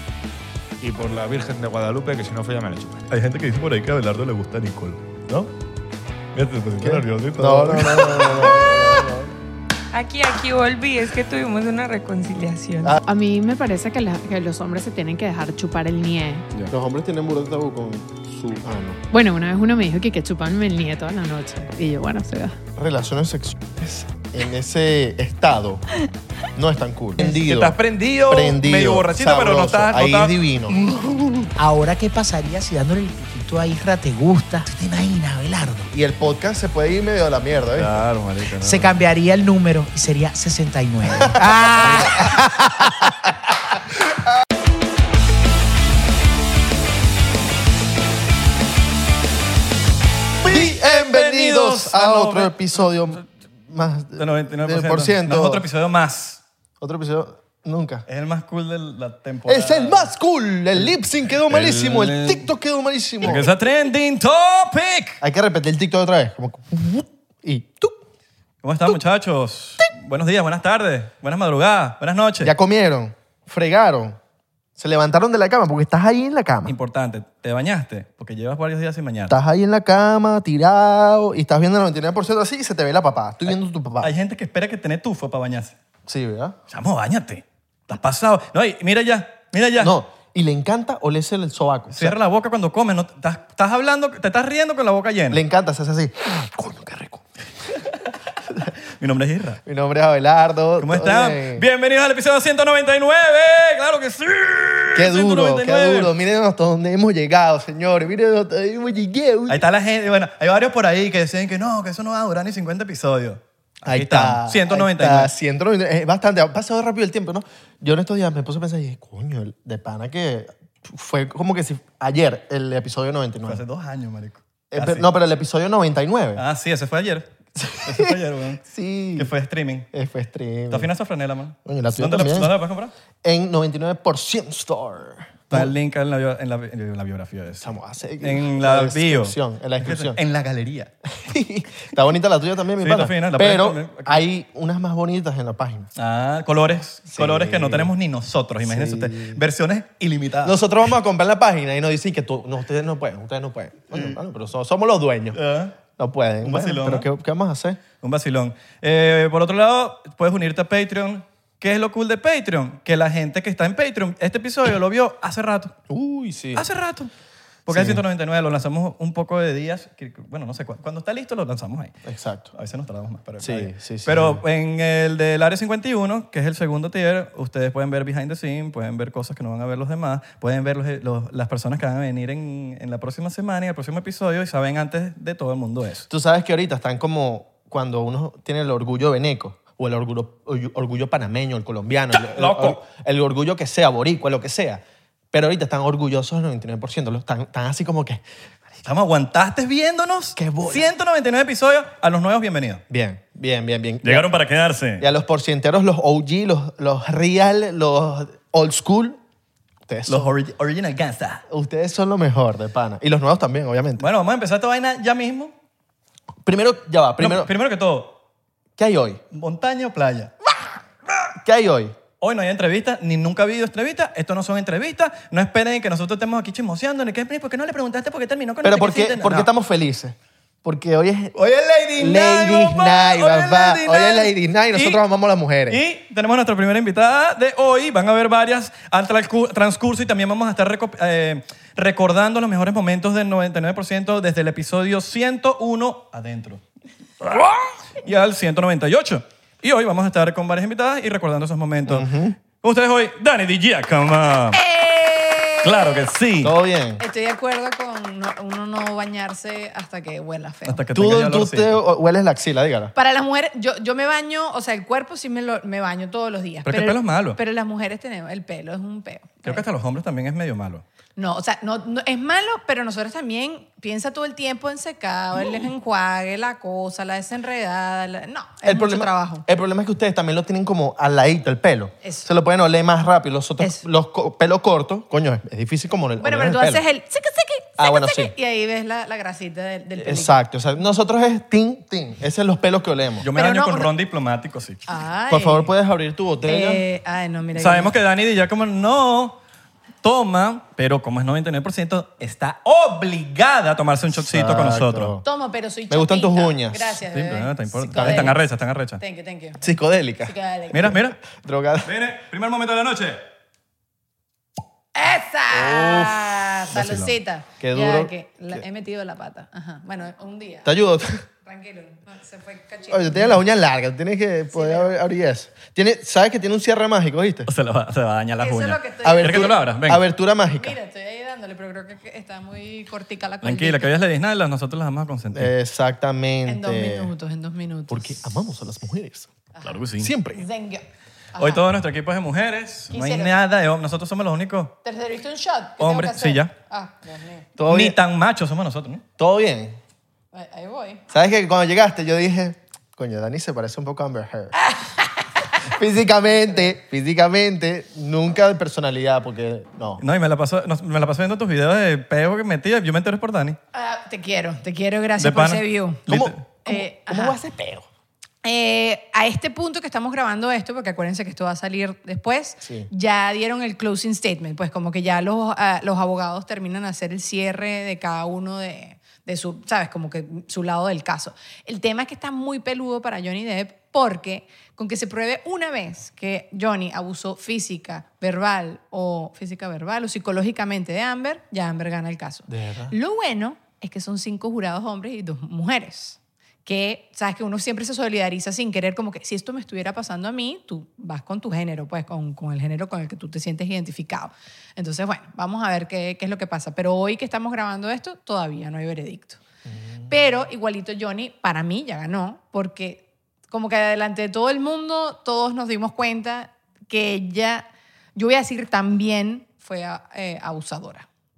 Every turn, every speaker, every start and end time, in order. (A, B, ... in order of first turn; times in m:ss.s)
0:00.8-0:03.1 A
0:03.1-0:05.0 B
0:06.3-0:08.5 B
0:06.8-0:09.3 C
0:09.9-0:13.0 D
0:13.0-0:16.4 E
0:16.7-0:19.0 C
0:19.1-0:22.6 E
0:22.8-0:25.8 C
0:26.6-0:30.8 C
0:27.2-0:31.5 B
0:31.6-0:35.9 F
0:35.9-0:37.9 C
0:37.8-0:39.0 B
0:38.6-0:43.1 F
0:41.8-0:42.1 C
0:50.4-0:55.6 C
0:50.4-0:53.2 B
0:54.2-0:56.4 B
0:56.8-0:58.0 C
0:58.1-1:00.1 B
0:59.5-1:03.5 C
1:00.8-1:02.4 B
1:03.2-1:05.2 B
1:05.2-1:08.0 C
1:08.6-1:12.5 B
1:12.4-1:14.2 C
1:14.8-1:16.7 C
1:16.6-1:19.3 B
1:19.3-1:24.1 C
1:24.0-1:25.7 B
1:26.1-1:26.6 C
1:26.7-1:29.9 B
1:29.8-1:32.1 C
1:31.9-1:35.4 B
1:35.3-1:37.2 C
1:39.0-1:39.6 B
1:39.6-1:41.6 C
1:40.8-1:46.1 B
1:44.9-1:49.6 C
1:49.5-1:55.3 B
1:53.8-2:03.6 C
2:03.4-2:05.1 B
2:04.7-2:06.4 C
2:06.4-2:07.3 B
2:07.6-2:09.3 C
2:07.8-2:08.6 B
2:09.2-2:09.9 B
2:09.9-2:10.9 C
2:10.7-2:12.9 B
2:11.6-2:12.5 C
2:13.2-2:15.7 C
2:15.5-2:20.9 B
2:17.6-2:20.2 C
2:21.2-2:25.9 C
2:22.8-2:24.2 B
2:26.0-2:30.6 B
2:27.1-2:27.9 C
2:28.6-2:29.4 C
2:30.4-2:35.4 C
2:33.9-2:34.2 B
2:35.3-2:35.7 B
2:36.0-2:37.8 C
2:36.4-2:37.1 B
2:38.0-2:45.7 B
2:45.9-2:46.6 C
2:46.5-2:47.1 B
2:47.6-2:51.9 B
2:47.7-2:48.0 C
2:52.0-2:52.5 C
2:52.5-3:06.1 B
2:53.4-2:54.4 C
3:06.1-3:18.2 C
3:12.1-3:12.8 B
3:18.8-3:22.8 B
3:20.4-3:20.9 C
3:22.9-3:24.3 C
3:24.0-3:25.0 B
3:25.0-3:29.2 C
3:29.9-3:30.3 C
3:30.1-3:31.4 B
3:31.5-3:34.0 C
3:34.0-3:35.5 B
3:36.4-3:37.5 C
3:37.2-3:38.1 B
3:38.8-3:39.2 C
3:39.3-3:40.3 B
3:41.4-3:42.0 C
3:42.2-3:49.5 B
3:48.6-3:51.3 C
3:51.3-3:55.0 B
3:52.0-3:55.8 C
3:55.7-4:06.6 B
4:07.2-4:12.0 B
4:11.8-4:12.4 C
4:12.6-4:14.6 B
4:14.5-4:16.0 G
4:15.6-4:16.5 B
4:16.4-4:17.0 C
4:17.0-4:20.8 G
4:20.6-4:21.8 B
4:20.9-4:22.9 C
4:22.9-4:29.6 G
4:26.6-4:27.4 B
4:29.4-4:30.8 B
4:31.2-4:39.4 G
4:38.6-4:46.8 C
4:42.0-4:42.3 G
4:46.2-4:50.4 G
4:47.8-4:48.3 C
4:50.0-4:53.3 C
4:53.2-4:54.8 B
4:53.3-4:53.9 G
4:54.9-4:55.7 G
4:55.3-4:56.8 C
4:56.4-4:57.9 G
4:57.6-4:59.4 B
5:00.0-5:05.1 B
5:04.1-5:05.2 C
5:05.2-5:08.4 G
5:05.9-5:07.0 C
5:07.1-5:09.0 B
5:07.9-5:08.4 C
5:09.0-5:09.6 G
5:09.6-5:10.4 C
5:10.2-5:11.0 G
5:10.7-5:11.2 B
5:10.9-5:11.9 C
5:11.8-5:13.2 B
5:14.9-5:20.7 G
5:15.5-5:16.4 C
5:16.7-5:17.1 B
5:17.6-5:18.6 C
5:20.6-5:21.2 C
5:21.4-5:23.4 G
5:22.9-5:27.5 C
5:24.5-5:24.9 G
5:27.5-5:30.0 B
5:28.4-5:29.6 G
5:29.0-5:30.8 C
5:30.5-5:33.9 G
5:33.4-5:35.5 B
5:35.3-5:37.1 C
5:36.4-5:38.2 G
5:37.9-5:39.3 C
5:39.6-5:40.1 B
5:40.0-5:40.4 C
5:40.3-5:41.6 G
5:41.4-5:44.7 B
5:42.9-5:43.3 G
5:44.8-5:47.5 G
5:45.8-5:46.5 B
5:47.6-5:48.0 C
5:47.7-5:49.0 B
5:49.2-5:49.8 C
5:50.3-5:51.0 G
5:51.1-5:54.5 C
5:54.6-5:55.2 G
5:55.7-6:00.0 C
5:56.4-5:56.7 G
6:00.0-6:03.6 B
6:03.7-6:06.0 G
6:05.2-6:06.4 B
6:06.1-6:07.8 C
6:06.6-6:07.4 G
6:08.4-6:49.4 G
6:12.6-6:12.9 C
6:32.5-6:32.9 C
6:49.6-6:50.4 C
6:50.1-7:01.1 G